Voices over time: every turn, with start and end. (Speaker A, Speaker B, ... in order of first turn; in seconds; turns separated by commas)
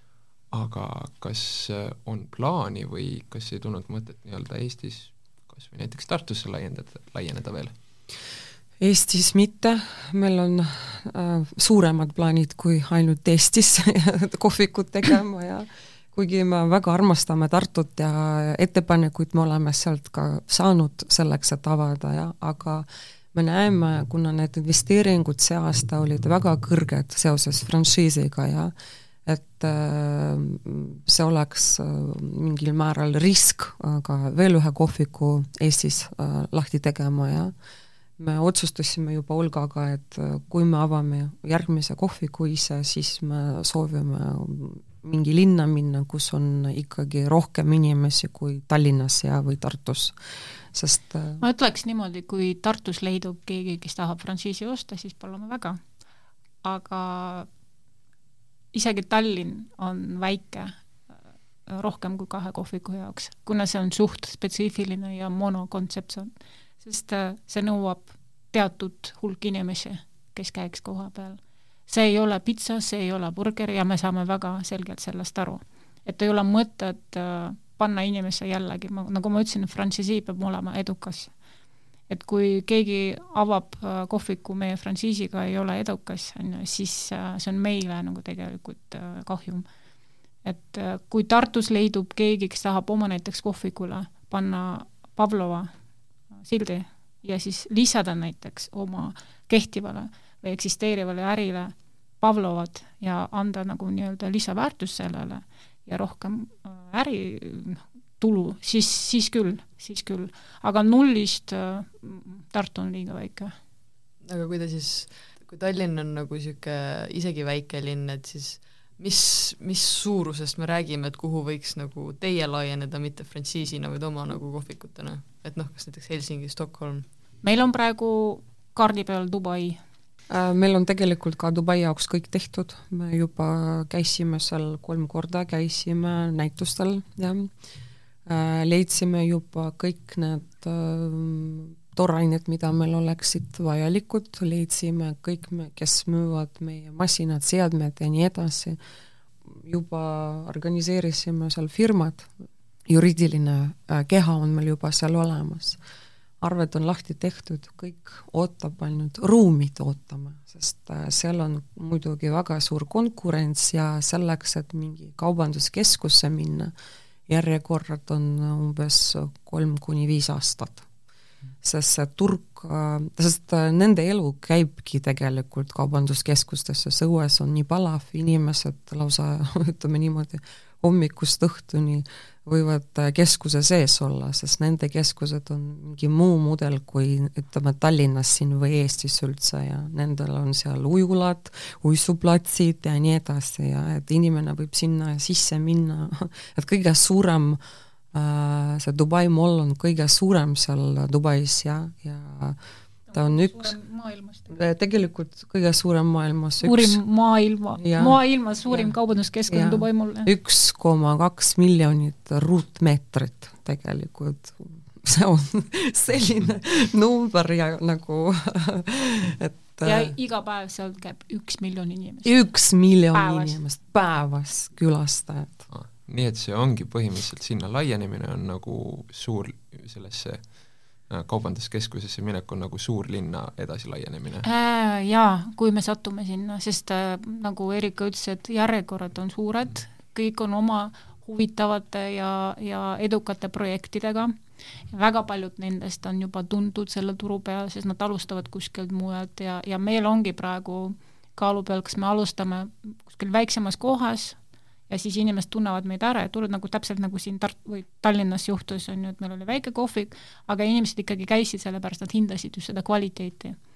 Speaker A: 0.5-7.7, Speaker B: 8.8-28.7, Speaker B: 29.3-37.5, Speaker B: 38.2-50.2, Speaker B: 50.7-51.4, Speaker C: 51.4-55.8, Speaker C: 56.6-57.5, Speaker C: 58.7-60.7, Speaker C: 61.7-81.3, Speaker C: 82.1-89.7, Speaker C: 90.4-95.7, Speaker C: 96.4-113.5, Speaker D: 114.2-127.1, Speaker C: 127.4-129.8, Speaker B: 130.3-137.5, Speaker B: 138.3-148.8, Speaker B: 149.5-152.3, Speaker B: 152.9-155.8, Speaker B: 156.4-166.7, Speaker B: 167.3-170.9, Speaker B: 171.6-197.6, Speaker B: 198.1-202.6, Speaker C: 203.1-204.5, Speaker B: 203.1-203.8, Speaker B: 204.5-207.0, Speaker C: 206.6-210.3, Speaker B: 207.8-208.9, Speaker B: 209.5-220.1, Speaker C: 219.8-222.4, Speaker B: 222.2-225.7, Speaker C: 223.1-223.6, Speaker A: 225.7-234.5, Speaker C: 234.4-244.3, Speaker C: 244.9-254.4, Speaker C: 254.9-263.6